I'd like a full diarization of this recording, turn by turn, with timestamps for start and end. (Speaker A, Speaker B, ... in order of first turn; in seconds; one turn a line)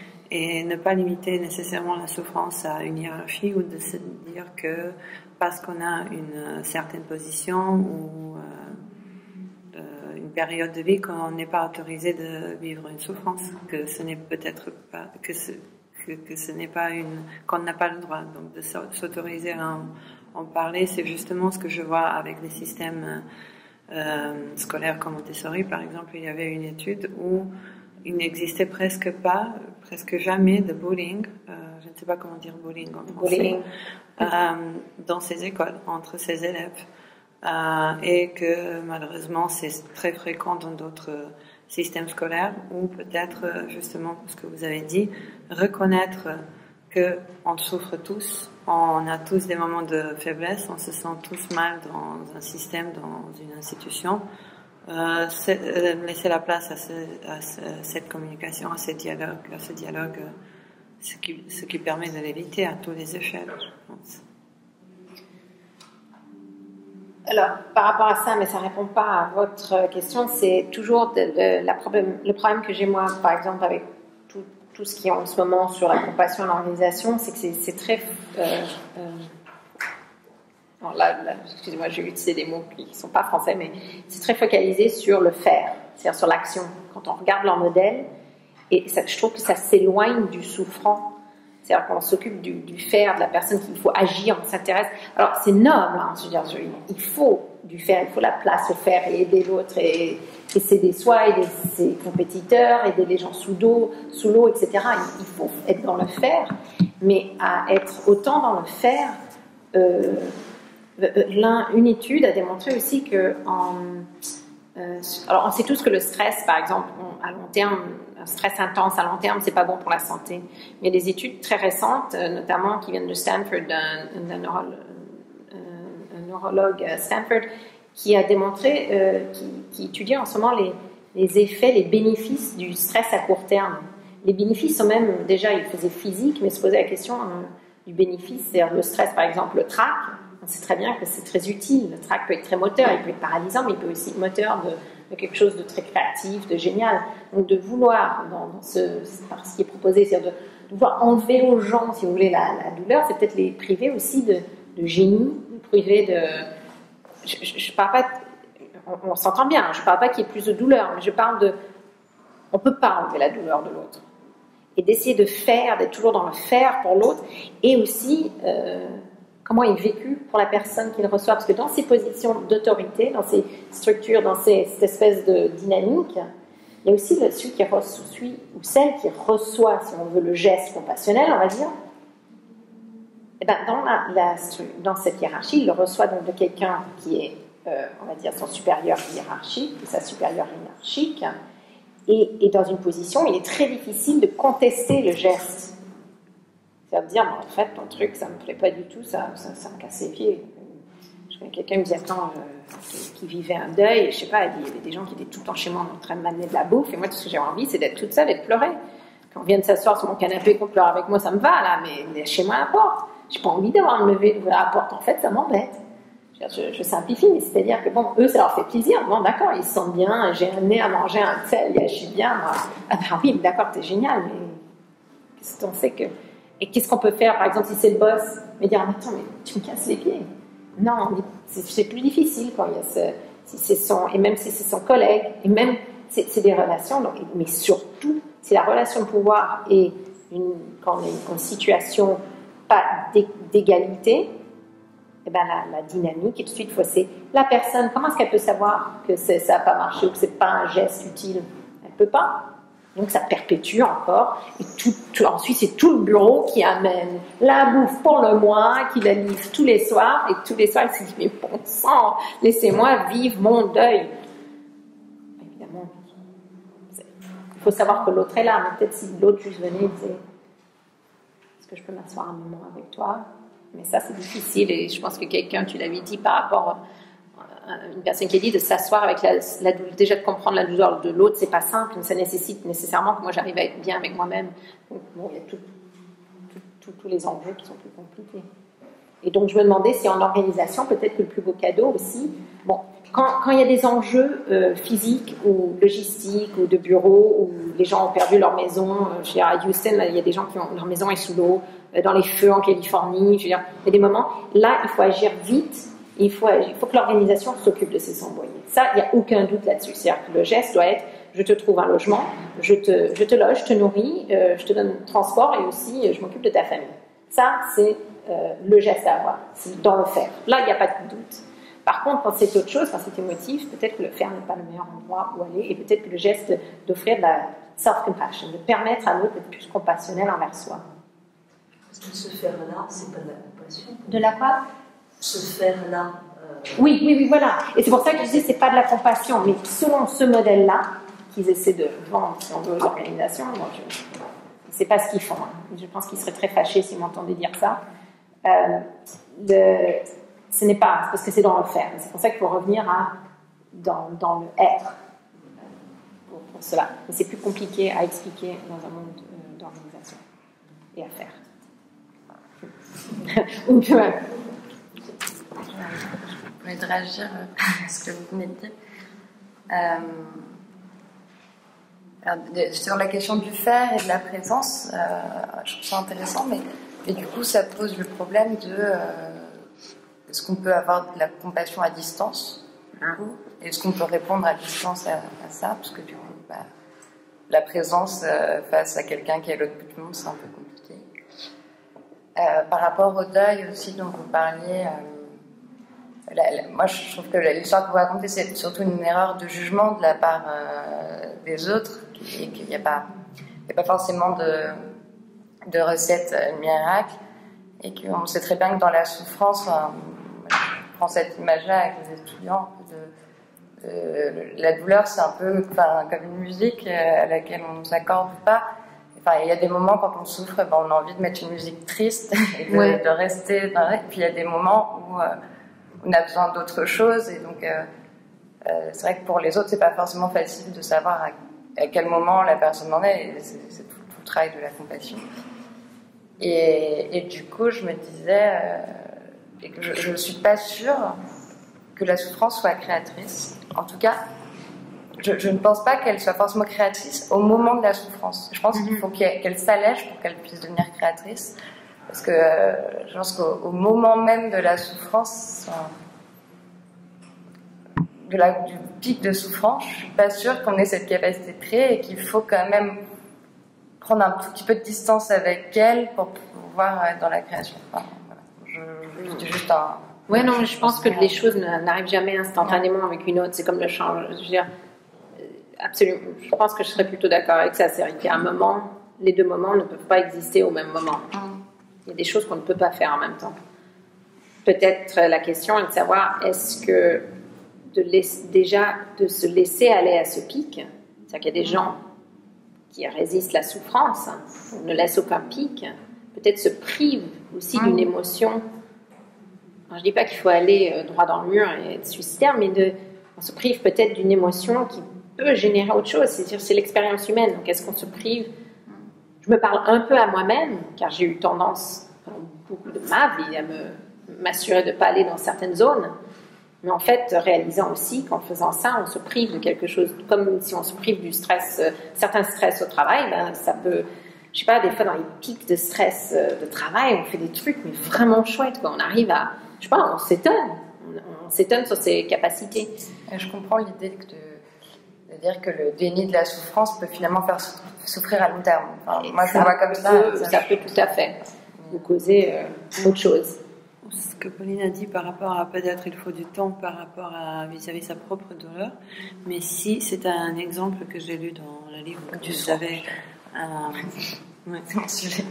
Speaker A: 0.3-8.8
Speaker A: 9.7-23.2
Speaker A: 23.9-27.5
Speaker A: 28.0-33.6
Speaker B: 33.1-33.7
Speaker A: 34.2-36.8
Speaker A: 37.4-54.2
Speaker A: 54.9-60.3
Speaker A: 61.0-64.2
Speaker B: 67.3-79.3
Speaker B: 80.8-88.1
Speaker B: 88.7-91.1
Speaker B: 91.7-109.2
Speaker B: 109.7-110.4
Speaker B: 111.0-114.1
Speaker B: 114.8-156.5
Speaker B: 157.2-158.2
Speaker B: 158.8-161.6
Speaker B: 162.5-164.0
Speaker B: 164.8-176.2
Speaker B: 176.8-181.7
Speaker B: 183.4-191.3
Speaker B: 192.1-195.7
Speaker B: 196.9-208.8
Speaker B: 209.3-215.8
Speaker B: 216.4-224.6
Speaker B: 225.4-230.2
Speaker B: 230.8-244.3
Speaker B: 245.2-264.1
Speaker B: 265.4-266.1
Speaker B: 267.6-270.2
Speaker B: 271.6-276.8
Speaker B: 277.4-285.6
Speaker B: 286.5-288.4
Speaker B: 289.2-330.8
Speaker C: 331.9-334.3
Speaker B: 334.1-334.6
Speaker C: 335.2-336.8
Speaker B: 336.8-344.0
Speaker B: 344.7-347.8
Speaker B: 348.4-353.2
Speaker B: 353.7-355.0
Speaker B: 356.3-360.2
Speaker B: 361.0-361.4
Speaker B: 363.2-364.3
Speaker D: 365.7-368.7
Speaker D: 369.7-370.5
Speaker D: 372.2-379.6
Speaker D: 380.3-382.6
Speaker D: 383.2-386.7
Speaker D: 387.5-391.0
Speaker D: 392.4-395.3
Speaker D: 396.3-403.1
Speaker D: 403.7-404.9
Speaker D: 405.7-407.2
Speaker D: 407.8-413.1
Speaker D: 413.8-425.4
Speaker B: 422.7-423.0
Speaker D: 426.0-427.9
Speaker D: 428.6-435.2
Speaker D: 436.4-441.2
Speaker D: 441.9-444.2
Speaker D: 445.2-451.5
Speaker B: 448.8-449.0
Speaker D: 452.1-455.9
Speaker D: 458.2-463.0
Speaker D: 464.0-471.5
Speaker B: 470.3-474.7
Speaker B: 475.4-481.3
Speaker D: 481.3-481.6
Speaker B: 482.1-483.6
Speaker B: 484.6-487.2
Speaker B: 487.9-492.0
Speaker B: 492.9-498.6
Speaker B: 499.9-508.5
Speaker B: 509.4-516.1
Speaker B: 516.8-532.9
Speaker D: 533.3-534.6
Speaker D: 535.3-541.1
Speaker B: 539.3-541.4
Speaker B: 541.9-543.6
Speaker A: 544.0-554.1
Speaker D: 552.4-553.0